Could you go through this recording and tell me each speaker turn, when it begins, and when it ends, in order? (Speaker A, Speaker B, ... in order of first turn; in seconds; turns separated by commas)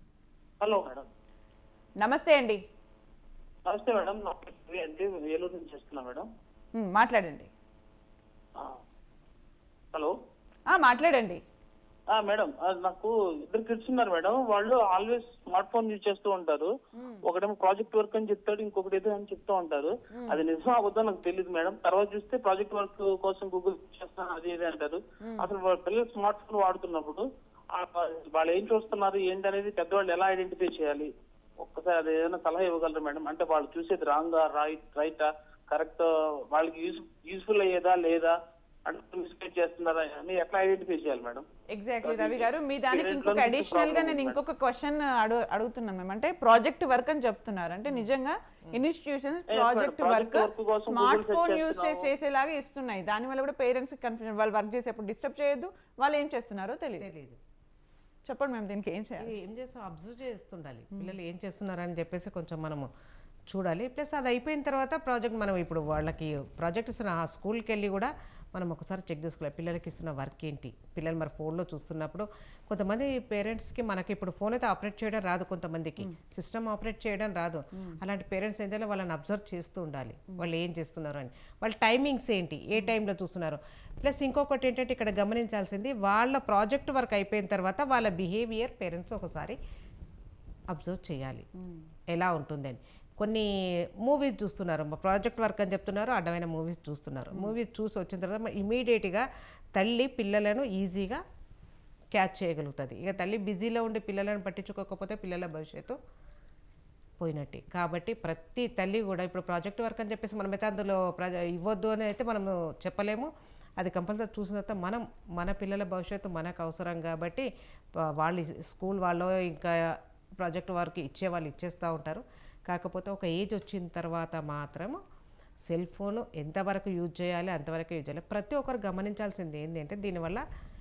Speaker A: 0.6-1.1, Speaker B: 2.0-2.6, Speaker A: 3.7-6.3, Speaker B: 6.8-7.5, Speaker B: 10.7-11.4, Speaker A: 12.1-16.7, Speaker B: 16.9-17.2, Speaker A: 17.2-41.5, Speaker B: 20.1-20.4, Speaker B: 25.2-25.5, Speaker B: 41.7-57.1, Speaker A: 42.0-44.4, Speaker A: 49.5-52.1, Speaker C: 57.0-57.4, Speaker B: 58.3-59.3, Speaker C: 59.2-62.9, Speaker C: 63.5-89.6, Speaker B: 77.7-78.0, Speaker C: 90.7-91.5, Speaker B: 91.6-91.8, Speaker C: 92.1-101.2, Speaker C: 102.1-106.0, Speaker C: 107.2-125.0, Speaker C: 125.7-130.4